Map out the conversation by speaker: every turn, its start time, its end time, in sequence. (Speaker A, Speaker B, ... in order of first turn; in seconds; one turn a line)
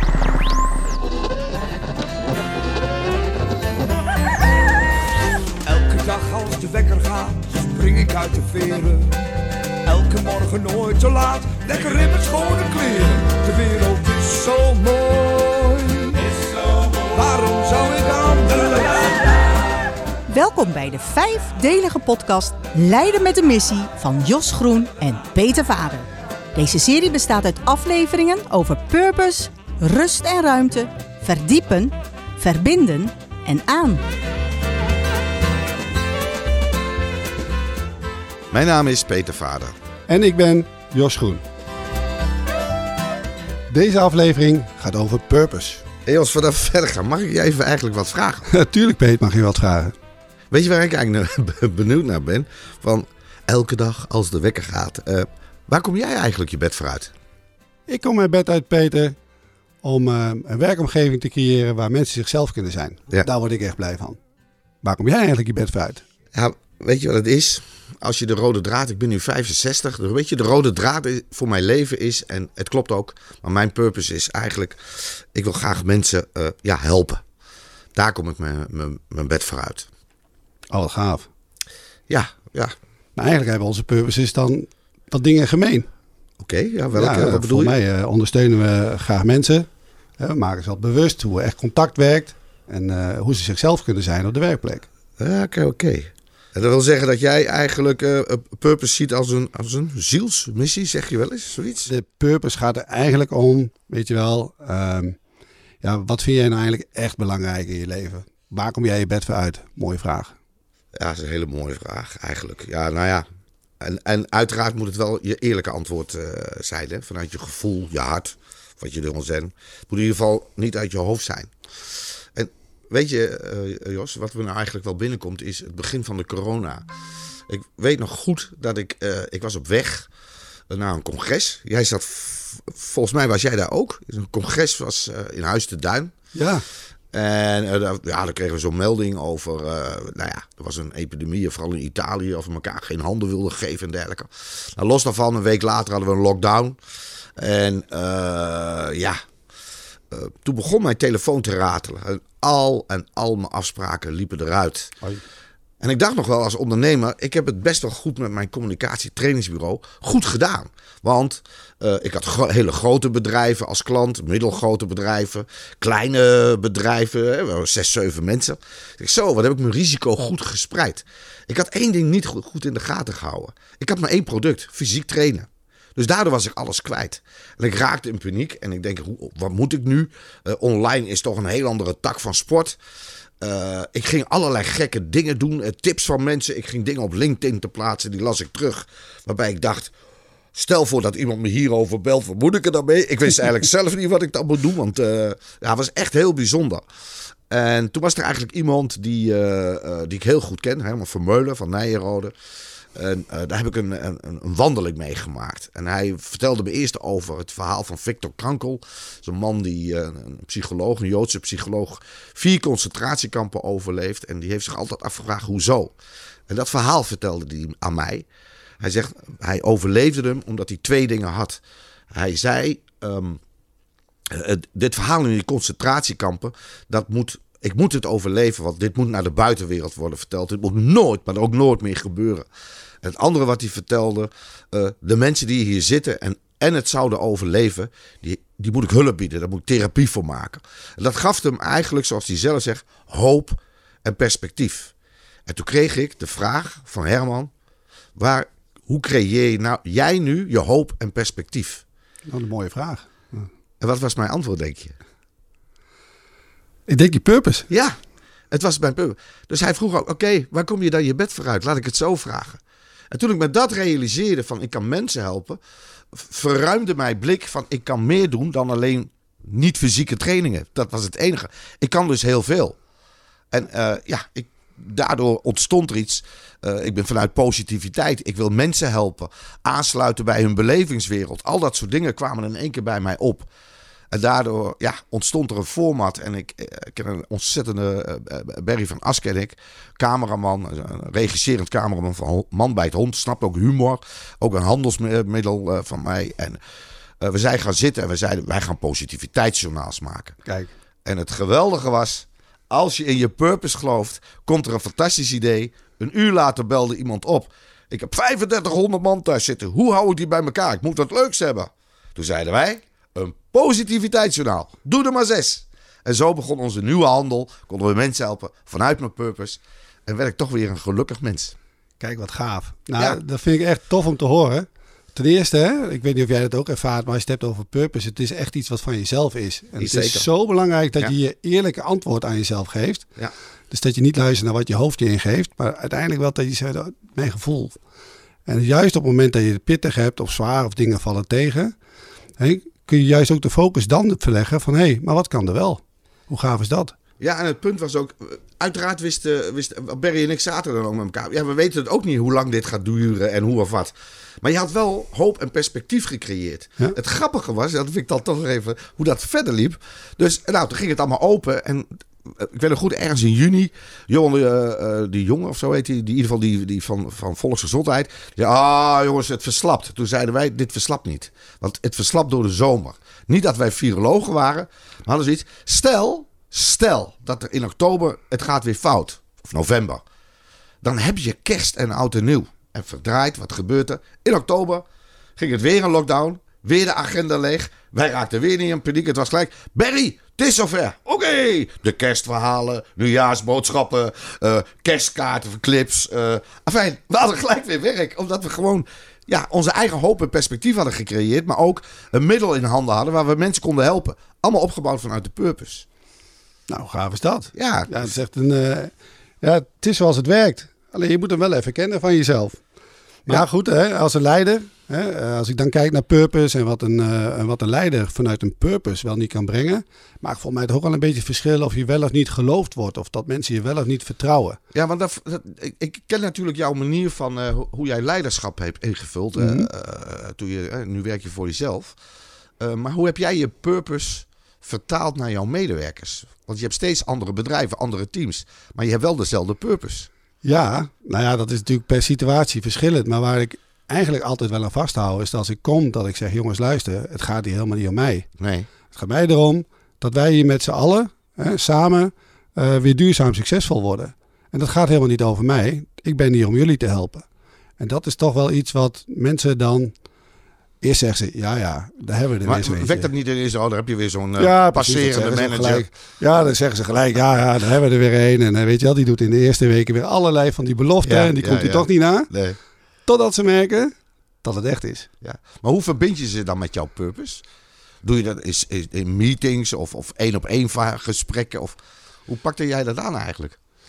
Speaker A: 5.7-9.2
Speaker A: 9.8-16.3
Speaker A: 17.0-19.4
Speaker B: 20.3-34.0
Speaker C: 38.5-39.8
Speaker D: 40.1-41.5
Speaker D: 43.7-45.8
Speaker C: 46.1-48.5
Speaker D: 48.5-49.9
Speaker C: 50.5-57.1
Speaker D: 57.9-59.1
Speaker D: 59.8-64.2
Speaker D: 64.8-66.0
Speaker C: 66.3-77.2
Speaker C: 78.0-79.9
Speaker D: 80.7-81.3
Speaker C: 82.1-82.8
Speaker D: 83.2-85.9
Speaker C: 86.4-87.8
Speaker D: 86.9-89.7
Speaker D: 90.2-94.9
Speaker C: 95.2-101.9
Speaker D: 101.9-105.2
Speaker D: 105.8-110.3
Speaker C: 111.0-113.2
Speaker C: 113.8-121.5
Speaker C: 122.3-126.9
Speaker C: 127.5-130.1
Speaker C: 130.7-136.1
Speaker D: 136.3-136.7
Speaker C: 137.1-146.8
Speaker C: 147.4-149.2
Speaker C: 150.1-155.0
Speaker C: 155.8-182.8
Speaker C: 183.4-189.9
Speaker C: 190.5-196.8
Speaker C: 197.5-202.3
Speaker C: 202.9-215.9
Speaker C: 216.5-218.3
Speaker C: 218.8-221.6
Speaker C: 222.1-223.4
Speaker C: 224.3-232.5
Speaker C: 233.0-244.9
Speaker C: 245.5-247.5
Speaker C: 248.2-251.8
Speaker D: 252.3-253.5
Speaker C: 253.8-255.0
Speaker D: 256.9-257.7
Speaker C: 257.7-258.0
Speaker C: 258.5-262.6
Speaker C: 263.1-265.6
Speaker C: 266.1-272.8
Speaker C: 273.5-283.5
Speaker C: 284.1-296.6
Speaker C: 297.2-300.4
Speaker D: 300.4-300.7
Speaker C: 301.1-321.6
Speaker D: 322.0-333.1
Speaker C: 329.8-330.3
Speaker D: 333.7-337.8
Speaker D: 338.5-341.7
Speaker D: 342.4-346.9
Speaker C: 347.2-380.0
Speaker C: 380.8-384.9
Speaker C: 385.4-405.9
Speaker D: 406.7-412.6
Speaker C: 407.5-408.1
Speaker D: 413.3-424.6
Speaker C: 424.7-432.0
Speaker D: 429.4-429.7
Speaker C: 432.6-440.1
Speaker D: 440.4-448.3
Speaker C: 448.4-448.7
Speaker D: 448.9-457.3
Speaker D: 457.8-459.9
Speaker D: 460.8-463.1
Speaker C: 462.4-465.9
Speaker D: 464.4-472.3
Speaker C: 471.0-472.6
Speaker D: 473.1-475.1
Speaker C: 475.2-477.4
Speaker C: 478.0-483.6